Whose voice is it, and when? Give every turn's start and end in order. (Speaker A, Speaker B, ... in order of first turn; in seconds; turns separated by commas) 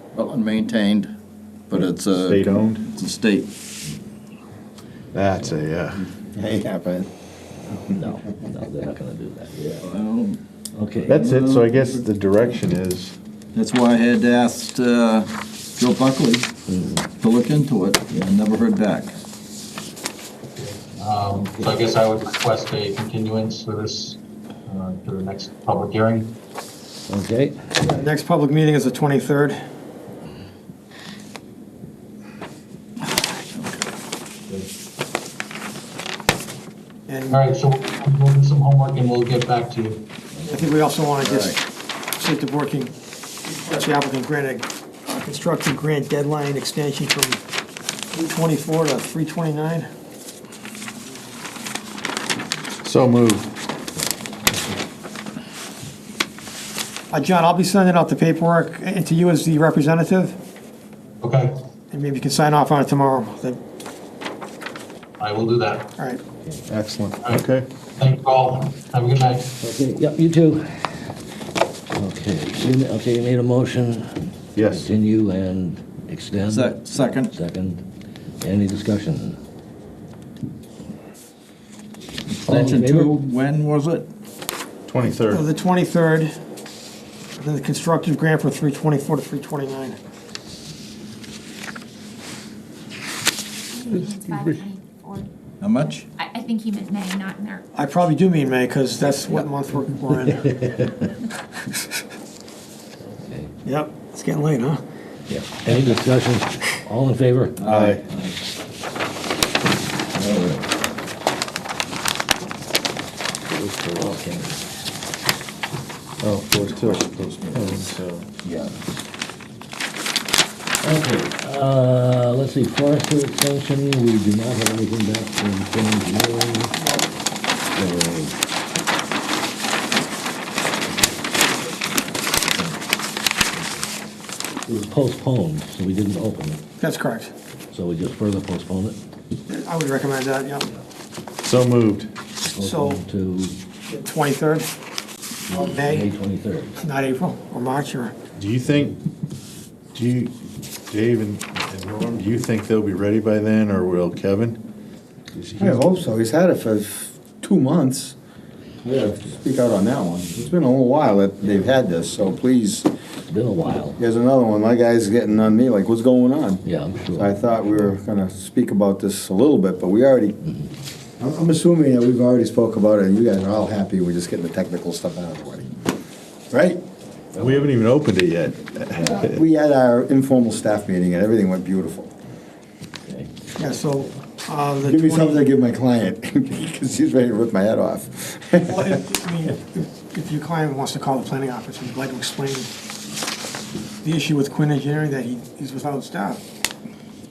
Speaker A: 0.1-1.1, Speaker A: 1.7-3.5, Speaker B: 1.8-2.9, Speaker B: 5.1-6.1, Speaker C: 6.3-7.1, Speaker D: 7.7-9.8, Speaker A: 9.8-10.4, Speaker D: 10.7-11.2, Speaker B: 11.1-13.1, Speaker A: 11.1-12.0, Speaker A: 13.5-16.5, Speaker D: 16.7-17.1, Speaker A: 17.2-19.2, Speaker E: 20.6-26.3, Speaker D: 27.1-27.6, Speaker F: 27.8-29.6, Speaker A: 33.0-33.9, Speaker F: 37.1-37.4, Speaker E: 37.3-40.0, Speaker F: 40.5-41.6, Speaker A: 41.2-41.6, Speaker F: 42.2-42.9, Speaker F: 43.5-47.4, Speaker F: 48.1-49.9, Speaker B: 52.8-53.5, Speaker F: 57.1-60.4, Speaker E: 61.2-61.6, Speaker F: 61.9-63.6, Speaker E: 65.2-65.9, Speaker B: 66.7-67.7, Speaker E: 68.0-69.5, Speaker D: 69.6-71.0, Speaker D: 71.9-77.8, Speaker B: 74.5-74.9, Speaker A: 76.5-77.3, Speaker D: 78.4-79.4, Speaker A: 82.3-84.1, Speaker D: 82.5-83.2, Speaker B: 84.9-85.5, Speaker F: 85.2-86.3, Speaker F: 87.4-90.0, Speaker G: 93.7-95.3, Speaker B: 94.3-94.6, Speaker A: 95.6-96.0, Speaker G: 95.9-97.7, Speaker F: 97.8-100.7, Speaker D: 103.0-103.5, Speaker F: 103.7-104.8, Speaker D: 105.3-107.6, Speaker A: 107.6-108.3, Speaker B: 107.6-108.1, Speaker A: 110.2-110.5, Speaker D: 110.2-110.6, Speaker B: 113.5-114.2, Speaker D: 114.0-114.5, Speaker B: 116.2-118.3, Speaker A: 116.6-117.9, Speaker D: 120.8-126.8, Speaker D: 127.7-128.3, Speaker D: 132.4-132.8, Speaker D: 134.7-136.6, Speaker F: 136.8-137.3, Speaker D: 137.7-139.0, Speaker F: 139.5-140.7, Speaker B: 141.4-142.1, Speaker D: 142.4-143.6, Speaker F: 142.6-143.0, Speaker F: 143.9-144.7, Speaker F: 145.5-146.1, Speaker D: 145.5-146.8, Speaker F: 146.8-148.2, Speaker B: 148.4-149.0, Speaker B: 149.9-150.3, Speaker B: 150.9-154.6, Speaker C: 155.6-158.2, Speaker C: 158.8-162.9, Speaker D: 163.3-164.0, Speaker C: 164.0-166.6, Speaker D: 166.6-167.4, Speaker C: 167.2-170.4, Speaker C: 171.2-175.7, Speaker C: 176.5-176.8, Speaker D: 177.3-177.7, Speaker B: 177.4-179.3, Speaker C: 179.0-182.1, Speaker F: 183.6-185.4, Speaker C: 184.8-188.9, Speaker F: 188.7-192.7, Speaker F: 194.0-196.4